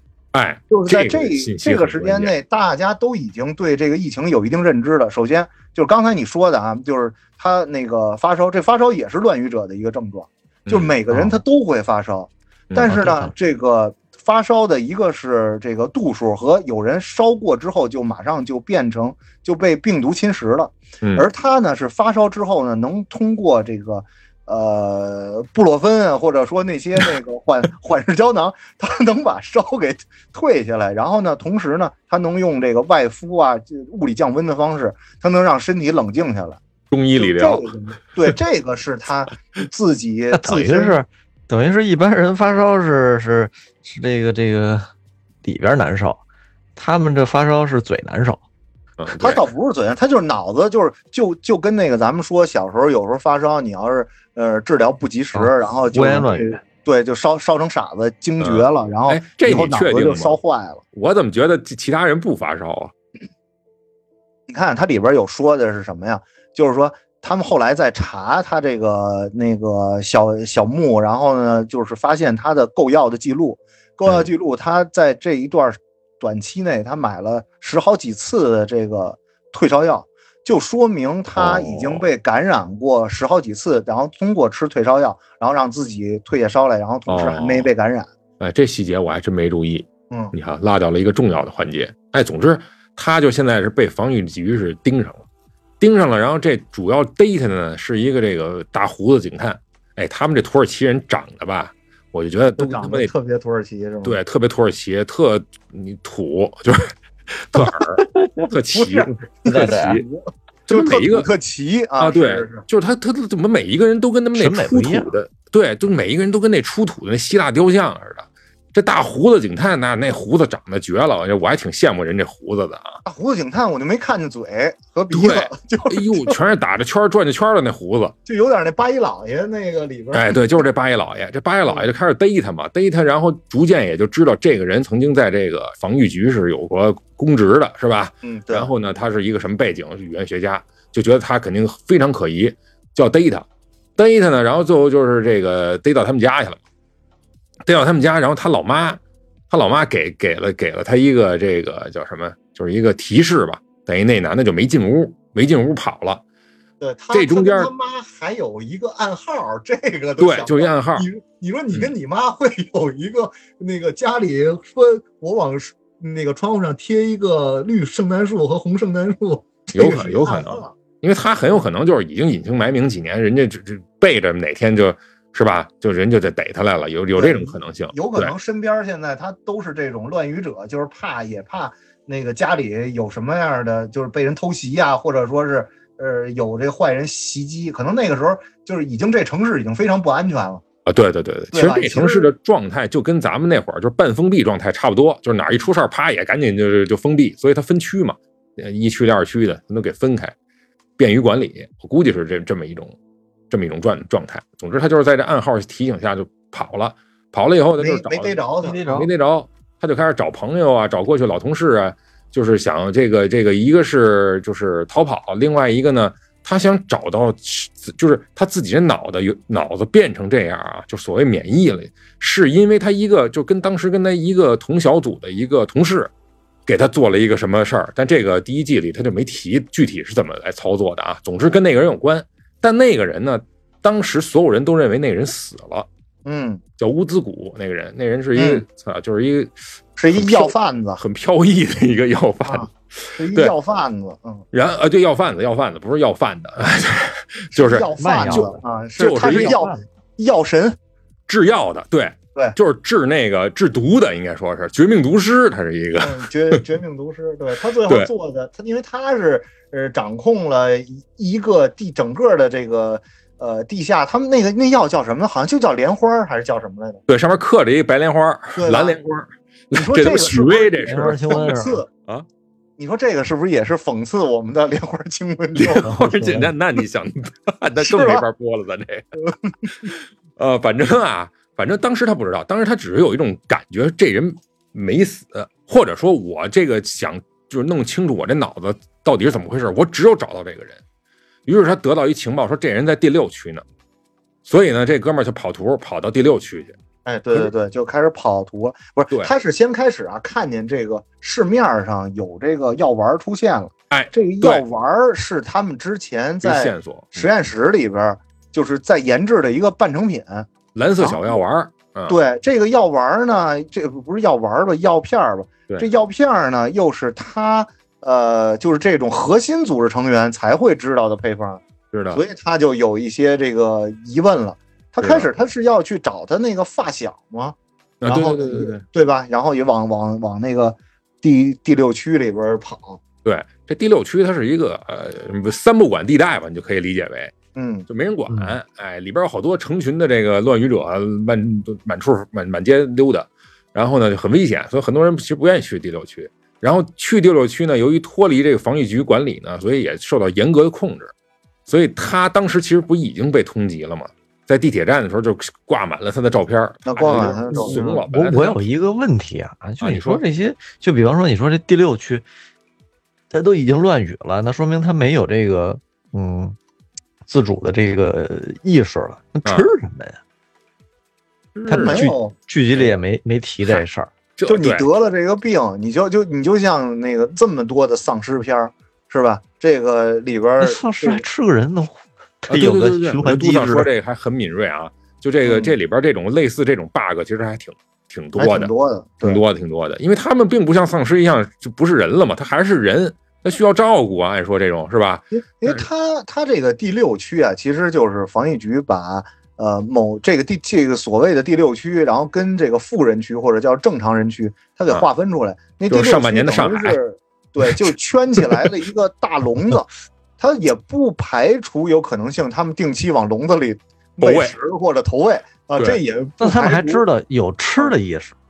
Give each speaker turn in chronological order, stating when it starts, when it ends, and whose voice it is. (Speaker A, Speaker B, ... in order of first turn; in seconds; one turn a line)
Speaker A: 0.3-2.3
Speaker B: 0.7-36.6
Speaker A: 10.7-10.9
Speaker C: 11.1-11.4
Speaker A: 12.7-13.0
Speaker C: 12.8-13.3
Speaker A: 36.9-37.7
Speaker B: 37.2-41.0
Speaker C: 40.3-44.9
Speaker C: 45.4-46.2
Speaker C: 46.8-48.5
Speaker A: 49.0-49.4
Speaker B: 49.2-60.8
Speaker C: 55.4-56.6
Speaker A: 58.4-60.4
Speaker A: 60.9-62.9
Speaker B: 64.5-88.1
Speaker A: 81.3-82.0
Speaker A: 87.1-87.7
Speaker A: 88.4-95.3
Speaker A: 95.8-103.1
Speaker B: 102.6-104.2
Speaker A: 104.0-110.0
Speaker C: 107.8-108.5
Speaker B: 108.7-112.7
Speaker C: 109.5-110.0
Speaker A: 110.7-111.3
Speaker A: 112.0-123.0
Speaker C: 114.3-115.1
Speaker B: 123.1-126.4
Speaker A: 125.1-128.2
Speaker B: 128.3-130.4
Speaker A: 130.1-143.5
Speaker B: 138.2-138.7
Speaker A: 144.0-146.6
Speaker A: 147.7-156.2
Speaker B: 156.8-170.7
Speaker A: 157.1-157.7
Speaker A: 160.2-161.1
Speaker A: 169.7-178.3
Speaker B: 177.2-190.6
Speaker A: 190.9-200.3
Speaker B: 191.5-192.3
Speaker A: 201.0-203.0
Speaker A: 203.5-226.1
Speaker B: 207.8-208.8
Speaker C: 208.6-209.1
Speaker A: 226.7-235.9
Speaker B: 236.2-236.6
Speaker A: 236.8-239.5
Speaker B: 238.3-238.6
Speaker B: 240.0-241.0
Speaker A: 240.1-243.5
Speaker B: 242.4-244.4
Speaker A: 244.5-248.5
Speaker B: 247.5-250.8
Speaker C: 248.0-248.6
Speaker A: 249.0-249.7
Speaker C: 249.3-249.8
Speaker A: 251.3-256.6
Speaker B: 256.0-267.0
Speaker A: 257.9-258.1
Speaker A: 267.1-271.5
Speaker B: 268.6-269.0
Speaker B: 269.7-271.9
Speaker C: 270.9-271.8
Speaker B: 272.8-276.0
Speaker A: 275.6-290.8
Speaker C: 275.8-276.5
Speaker B: 277.8-278.2
Speaker B: 279.3-279.6
Speaker A: 291.5-293.6
Speaker A: 294.4-296.8
Speaker B: 297.1-311.4
Speaker A: 303.9-304.6
Speaker A: 306.4-307.3
Speaker A: 310.8-312.2
Speaker B: 312.1-333.0
Speaker A: 321.9-322.2
Speaker A: 325.0-325.3
Speaker A: 328.0-328.8
Speaker A: 333.2-337.3
Speaker B: 337.6-337.9
Speaker A: 337.9-351.1
Speaker C: 338.3-338.6
Speaker A: 351.7-358.6
Speaker B: 356.9-358.0
Speaker C: 357.5-362.2
Speaker A: 359.8-360.2
Speaker C: 363.3-366.6
Speaker C: 367.3-370.2
Speaker A: 371.6-372.1
Speaker C: 371.7-374.1
Speaker B: 371.7-372.3
Speaker A: 374.4-374.9
Speaker B: 374.5-381.3
Speaker C: 380.6-383.9
Speaker A: 382.5-388.7
Speaker B: 385.4-385.8
Speaker B: 388.4-389.4
Speaker A: 389.2-395.9
Speaker B: 395.3-417.1
Speaker A: 405.9-407.0
Speaker A: 414.2-414.6
Speaker C: 416.4-418.4